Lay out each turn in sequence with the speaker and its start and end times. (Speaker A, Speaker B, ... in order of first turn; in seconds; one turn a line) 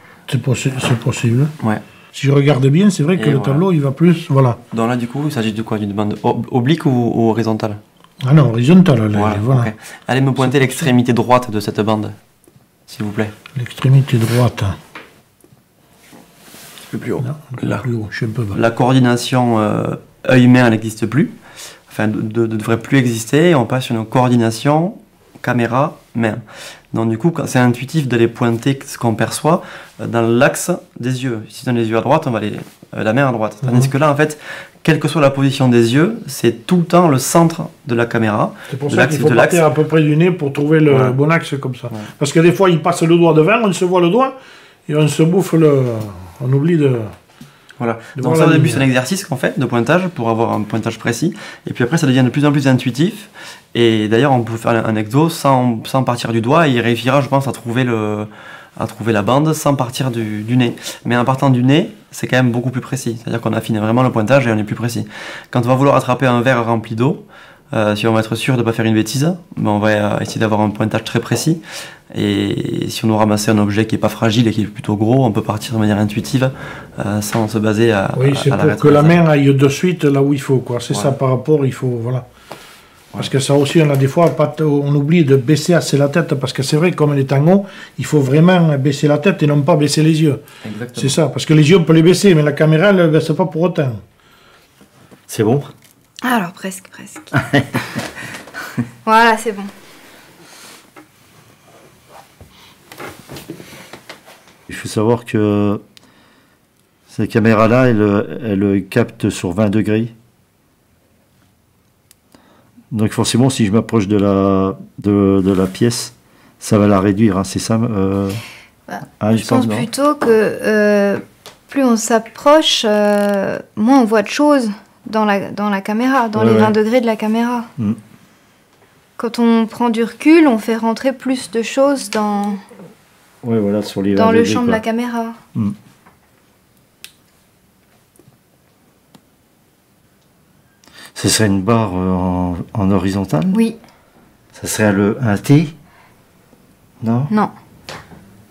Speaker A: 0.3-1.5
Speaker A: 2.1-4.6
Speaker B: 3.1-3.7
Speaker B: 4.7-7.8
Speaker A: 8.2-9.7
Speaker B: 9.1-12.2
Speaker A: 10.4-10.9
Speaker B: 12.9-13.3
Speaker A: 13.6-14.8
Speaker B: 16.9-17.9
Speaker A: 17.2-18.6
Speaker B: 18.5-21.4
Speaker B: 21.9-39.6
Speaker A: 33.6-33.9
Speaker A: 38.7-47.1
Speaker B: 40.9-41.2
Speaker B: 47.8-79.2
Speaker A: 48.2-48.9
Speaker A: 78.1-82.3
Speaker B: 80.9-81.2
Speaker A: 83.2-90.4
Speaker B: 90.6-91.2
Speaker A: 91.0-94.0
Speaker C: 95.3-95.7
Speaker D: 96.2-97.3
Speaker C: 97.4-97.8
Speaker D: 99.0-99.7
Speaker C: 104.7-105.8
Speaker C: 107.1-110.1
Speaker C: 112.9-118.4
Speaker D: 118.9-127.7
Speaker C: 119.2-119.9
Speaker C: 126.3-126.8
Speaker D: 129.2-132.6
Speaker C: 133.4-134.8
Speaker D: 134.2-135.4
Speaker C: 141.2-143.6
Speaker C: 144.5-145.7
Speaker C: 147.0-147.3